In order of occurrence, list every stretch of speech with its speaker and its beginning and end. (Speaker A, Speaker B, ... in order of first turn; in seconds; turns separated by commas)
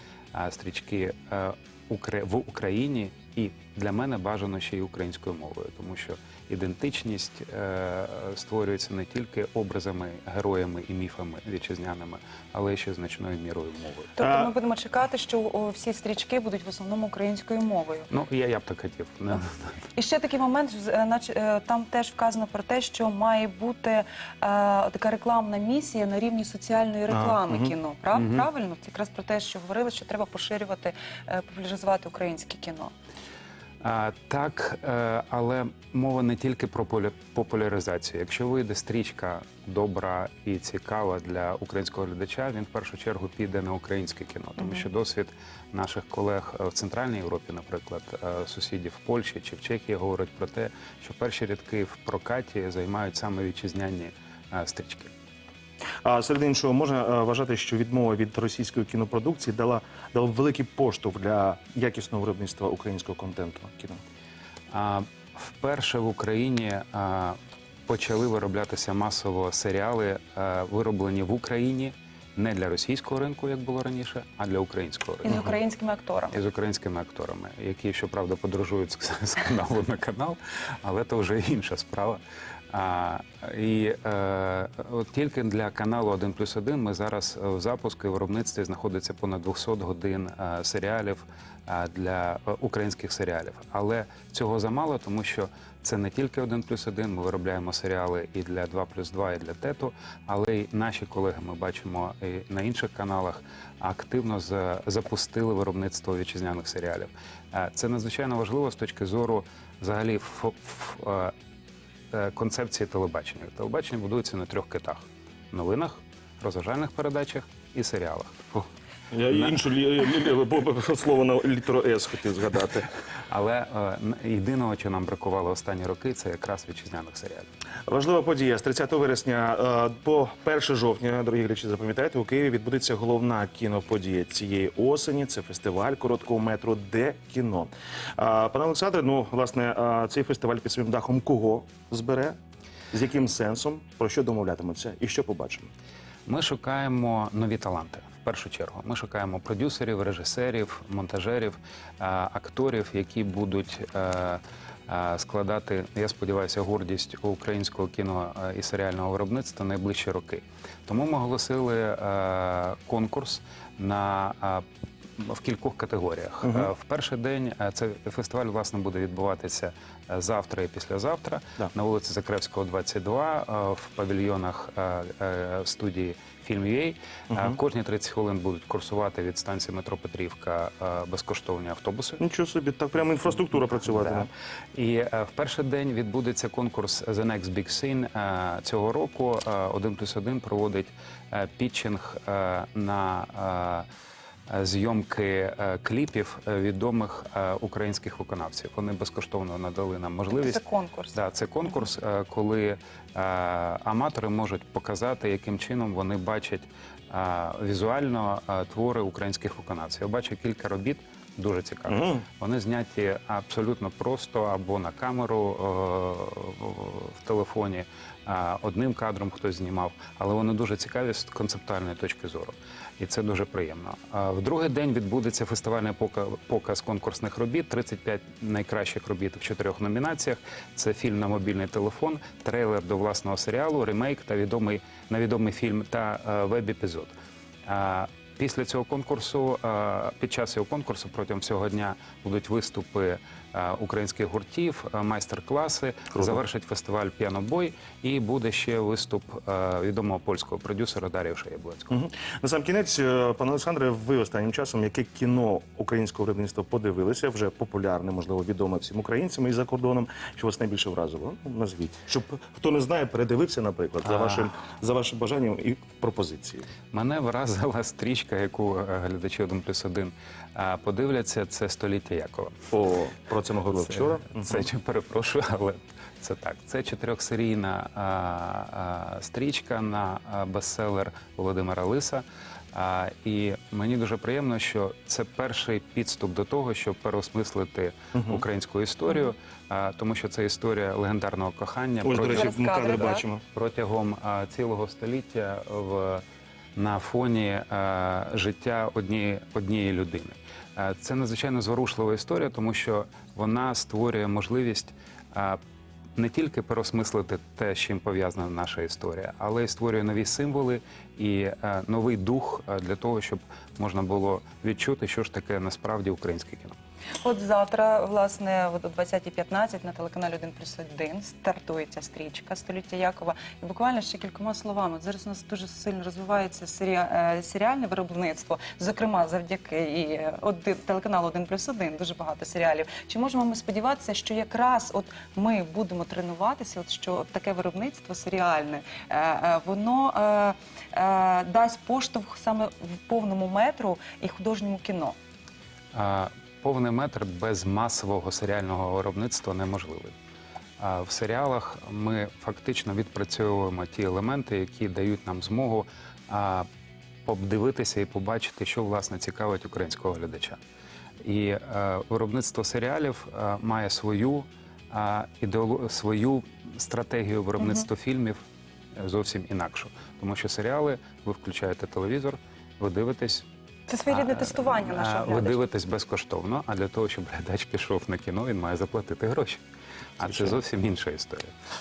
Speaker A: 0.3-14.1, Speaker B: 14.2-18.1, Speaker C: 14.2-14.5, Speaker A: 18.1-19.8, Speaker B: 19.9-32.9, Speaker C: 27.1-27.7, Speaker A: 28.1-28.5, Speaker A: 33.8-55.1, Speaker B: 44.6-44.9, Speaker C: 56.0-64.0, Speaker A: 64.7-75.5, Speaker B: 75.2-76.4, Speaker A: 76.3-82.2, Speaker A: 82.7-111.3, Speaker A: 112.1-118.7, Speaker C: 119.1-122.9, Speaker A: 123.3-127.5, Speaker C: 127.9-142.4, Speaker C: 142.9-145.7, Speaker A: 146.3-164.6, Speaker A: 165.2-182.2, Speaker C: 166.4-166.7, Speaker C: 177.3-177.6, Speaker C: 182.2-184.3, Speaker A: 183.8-193.9, Speaker A: 194.5-200.6, Speaker B: 200.3-201.8, Speaker A: 201.1-237.1, Speaker C: 211.9-212.2, Speaker A: 237.7-252.0, Speaker C: 251.9-266.7, Speaker A: 264.1-264.5, Speaker A: 266.9-272.6, Speaker C: 272.7-274.7, Speaker A: 273.7-296.2, Speaker C: 288.1-288.4, Speaker C: 292.0-293.4, Speaker B: 292.2-293.2, Speaker A: 296.8-305.6, Speaker A: 306.2-316.8, Speaker B: 317.2-345.2, Speaker A: 345.9-350.1, Speaker A: 350.8-356.7, Speaker A: 357.2-360.6, Speaker A: 361.2-368.4, Speaker B: 367.6-367.9, Speaker A: 369.0-373.5, Speaker B: 373.9-375.6, Speaker A: 374.1-379.6, Speaker A: 380.2-381.5, Speaker C: 380.3-380.6